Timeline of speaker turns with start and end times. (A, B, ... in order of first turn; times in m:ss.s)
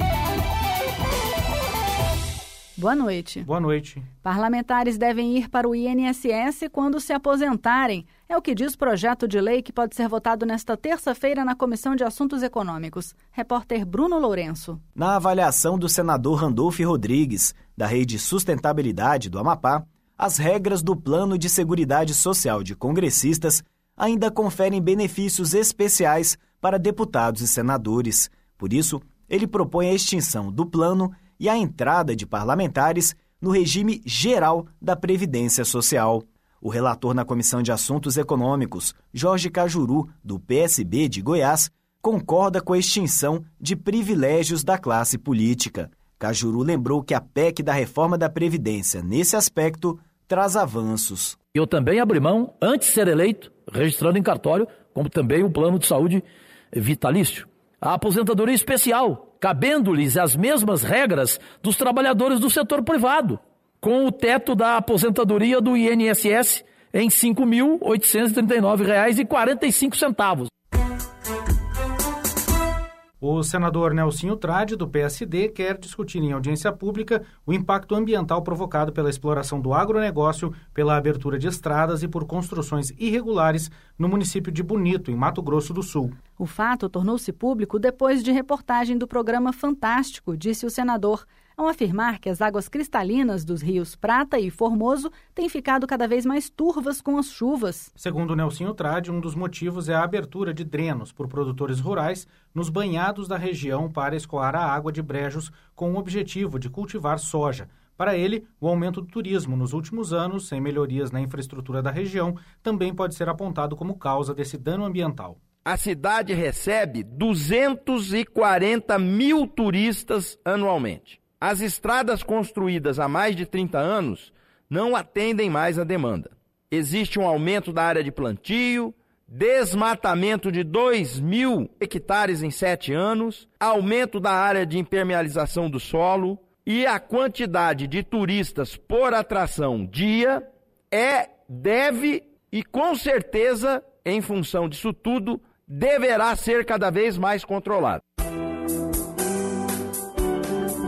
0:02.8-0:03.4 A
0:03.4-0:04.1 B
0:04.2-0:14.8 A
0:15.0-0:51.4 C
0:51.5-1:10.5 D
1:13.2-1:26.2 B
1:26.4-1:37.9 A
1:38.0-1:55.4 B
1:55.6-2:28.0 E